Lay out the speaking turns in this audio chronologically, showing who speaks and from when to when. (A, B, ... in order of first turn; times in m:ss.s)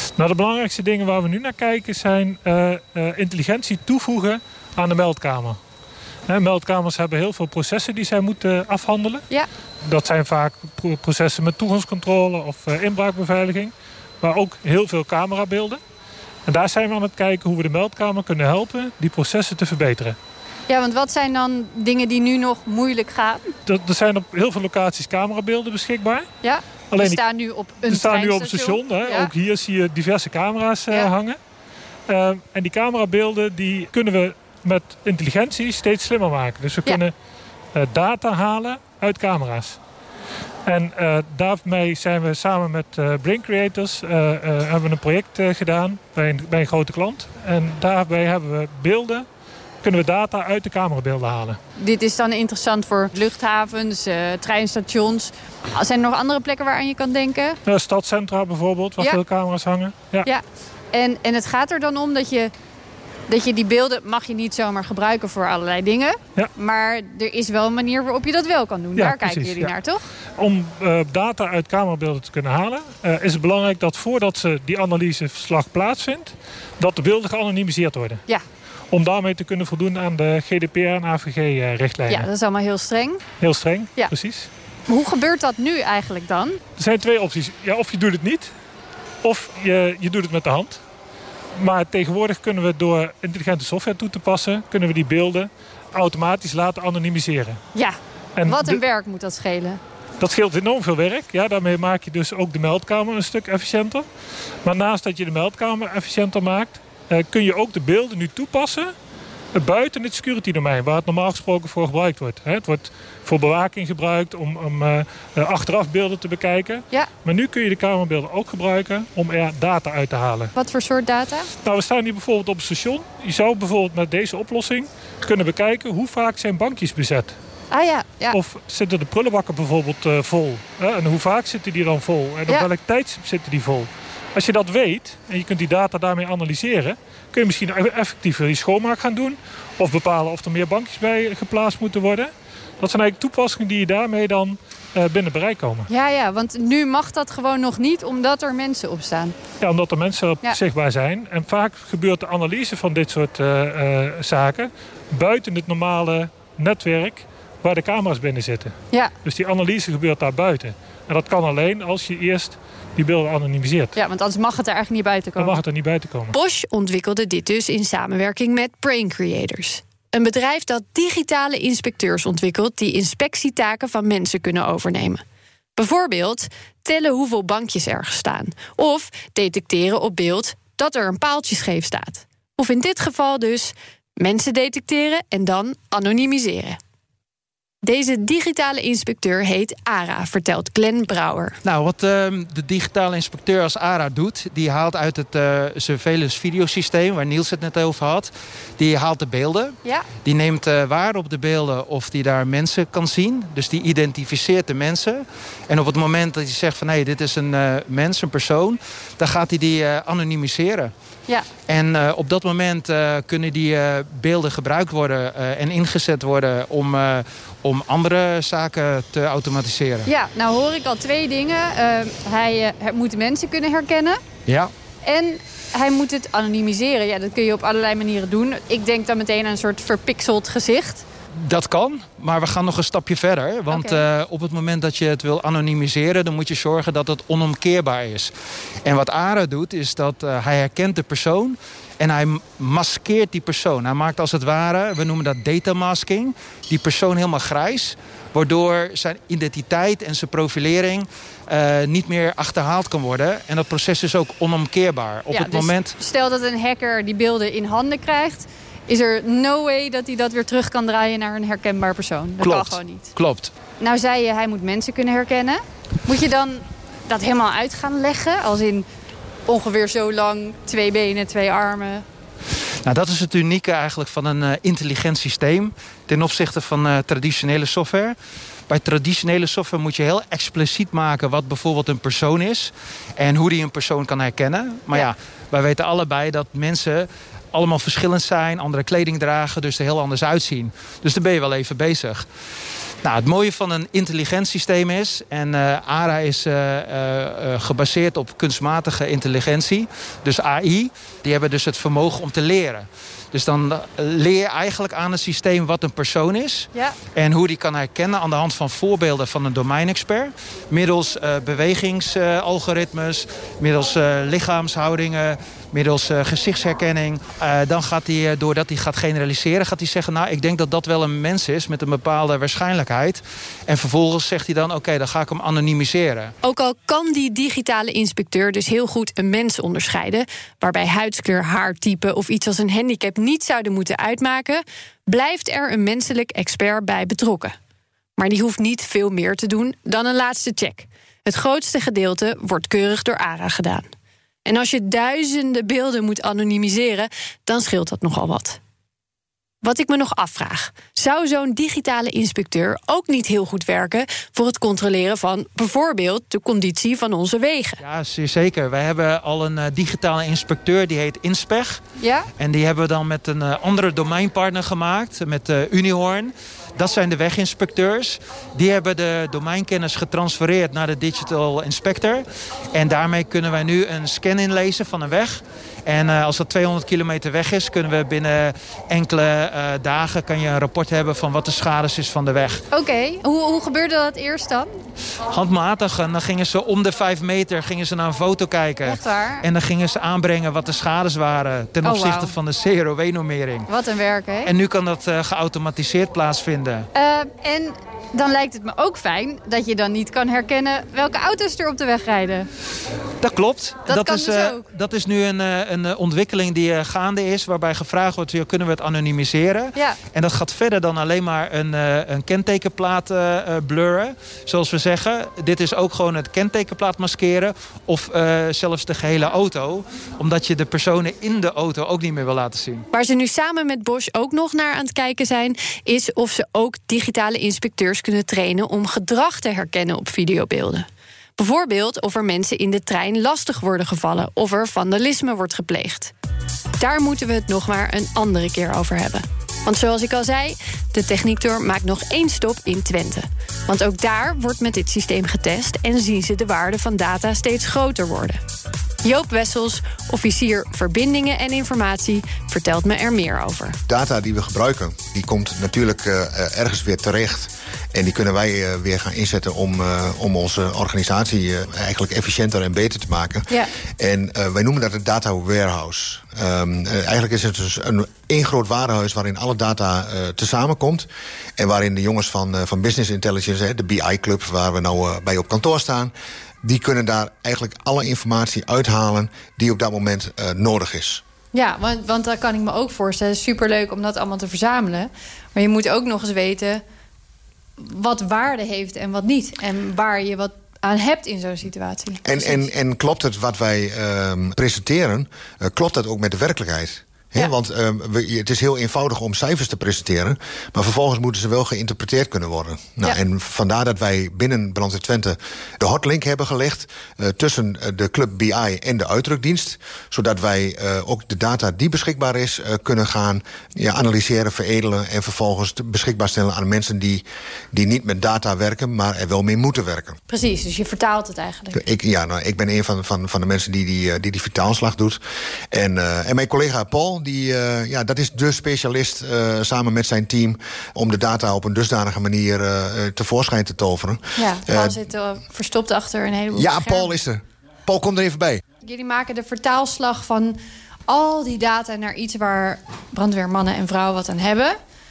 0:00.2-0:05.6 A
0:06.3-0:09.2 A
0:09.9-0:15.8 A
0:16.5-0:20.2 A
0:20.7-0:23.6 B
0:23.7-0:26.3 A
0:26.4-0:29.3 B
0:26.9-0:27.2 A
0:27.9-0:31.4 A
0:32.1-0:37.1 A
0:37.7-0:39.8 A
0:40.6-0:49.3 A
0:49.8-0:51.6 A
0:51.8-0:57.6 B
0:57.7-1:00.3 A
1:00.2-1:02.5 B
1:03.3-1:10.0 B
1:09.0-1:09.7 A
1:10.4-1:18.2 A
1:18.9-1:22.3 A
1:22.1-1:23.2 B
1:23.4-1:24.5 A
1:24.9-1:26.6 B
1:26.8-1:28.5 A
1:29.2-1:30.8 A
1:31.6-1:37.6 A
1:37.8-1:39.8 B
1:38.4-1:38.8 A
1:40.2-1:44.1 A
1:44.6-1:48.9 A
1:49.5-2:00.5 A
2:00.6-2:01.5 B
2:01.6-2:07.4 A
2:07.7-2:08.4 B
2:08.3-2:25.9 A
2:25.9-2:29.4 B
2:29.6-2:44.0 A
2:44.0-2:45.6 B
2:45.4-2:46.3 A
2:46.3-2:55.2 B
2:55.8-3:06.8 B
3:07.8-3:11.6 B
3:11.6-3:30.9 C
3:31.7-3:40.1 C
3:40.1-3:44.2 B
3:44.5-3:44.7 C
3:45.0-3:51.0 B
3:51.4-3:58.3 C
3:53.7-3:54.1 B
3:58.8-4:16.0 C
4:15.3-4:23.1 B
4:22.4-4:23.5 C
4:23.8-4:28.9 B
4:29.5-4:32.0 B
4:32.8-4:38.2 C
4:38.7-4:52.2 C
4:53.0-5:26.3 C
5:26.4-5:37.6 B
5:38.2-5:43.9 B
5:44.5-5:48.6 B
5:49.6-5:57.8 B
5:57.8-6:01.8 C
6:02.0-6:02.3 B
6:02.4-6:22.6 C
6:22.7-6:24.7 B
6:25.3-6:33.7 C
6:28.8-6:29.4 B
6:31.8-6:32.4 B
6:33.7-6:34.5 B
6:34.4-6:36.9 C
6:36.9-6:42.5 B
6:43.2-7:02.9 C
6:43.9-6:44.7 B
7:02.9-7:16.1 B
7:16.8-7:28.4 B
7:29.0-7:33.8 B
7:33.9-8:01.2 D
8:01.5-8:06.8 B
8:07.8-8:12.7 B
8:12.2-8:40.2 D
8:40.3-8:41.8 B
8:41.7-8:45.2 D
8:45.7-8:55.0 D
8:54.4-8:57.1 B
8:56.5-8:58.6 D
8:58.8-9:04.8 B